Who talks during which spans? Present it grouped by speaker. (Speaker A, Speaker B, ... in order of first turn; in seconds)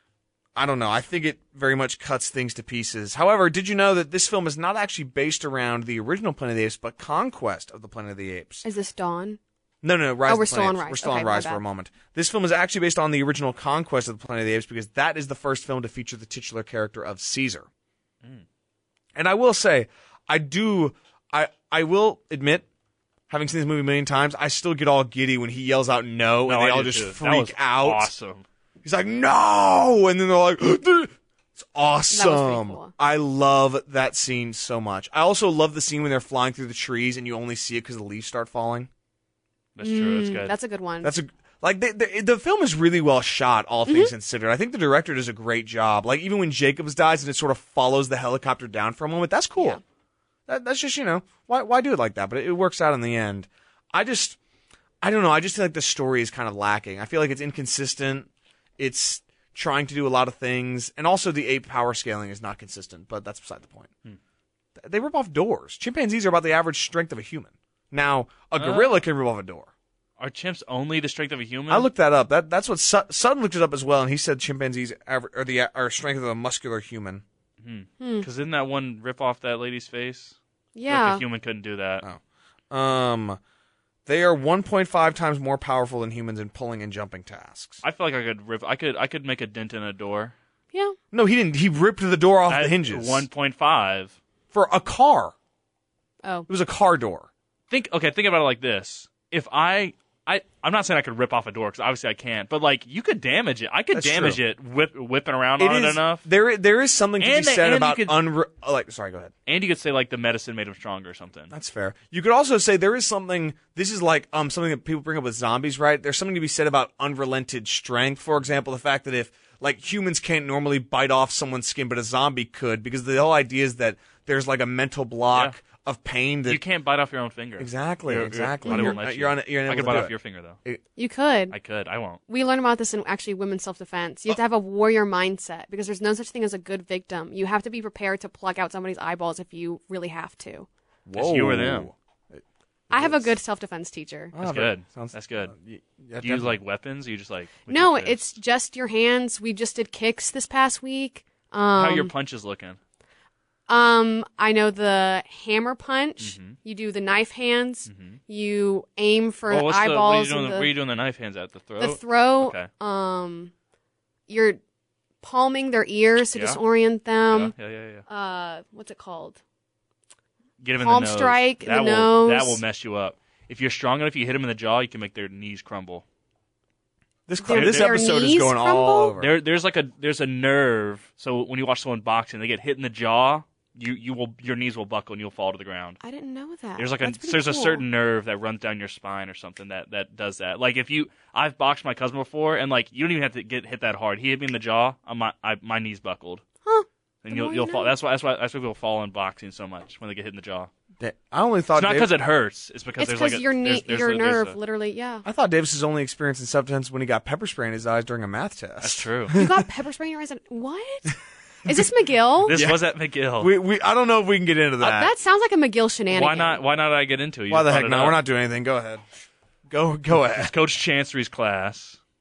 Speaker A: 0.6-8.6, 9.8-17.7, 19.1-22.6, 23.3-28.1, 28.8-38.9, 41.0-49.8, 50.5-54.4, 55.0-63.9, 64.8-69.7, 71.7-77.2, 82.7-83.4, 84.0-87.8, 91.1-93.3, 94.5-95.3, 96.5-97.3, 103.9-104.4, 105.6-109.3, 111.5-126.6, 127.6-130.1, 141.1-143.3, 144.3-146.6, 177.3-179.3, 201.0-202.1, 205.2-209.6, 212.5-215.1, 217.5-219.1, 219.7-220.5
Speaker B: 8.6-9.4, 10.2-11.6, 32.1-32.9, 39.8-41.1, 43.9-44.1, 78.0-78.2, 80.7-81.2, 128.6-129.0, 131.0-131.5, 132.3-140.7, 142.9-144.3, 147.7-152.1, 153.7-160.7, 161.8-163.5, 164.3-164.6, 165.2-167.5, 168.1-169.4, 170.8-172.6, 177.4-179.1, 186.0-187.8, 196.6-197.9, 203.0-205.2, 209.3-212.6, 214.8-216.6
Speaker C: 26.4-28.4, 39.7-40.5, 68.6-69.0, 70.2-71.9, 77.6-80.3, 80.9-82.0, 87.8-90.3, 92.5-94.2, 97.7-106.2, 107.2-108.2, 109.5-111.5, 126.5-130.6, 131.5-132.2, 141.1-141.9, 144.4-145.5, 146.2-148.2, 151.7-152.8, 156.2-156.6, 157.9-158.2, 159.5-162.7, 166.3-166.6, 167.3-168.0, 170.6-176.0, 177.5-178.1, 179.2-186.0, 186.8-196.4, 197.2-200.7, 201.7-204.6, 208.8-209.4, 212.4-213.5, 216.1-218.2, 220.2-222.0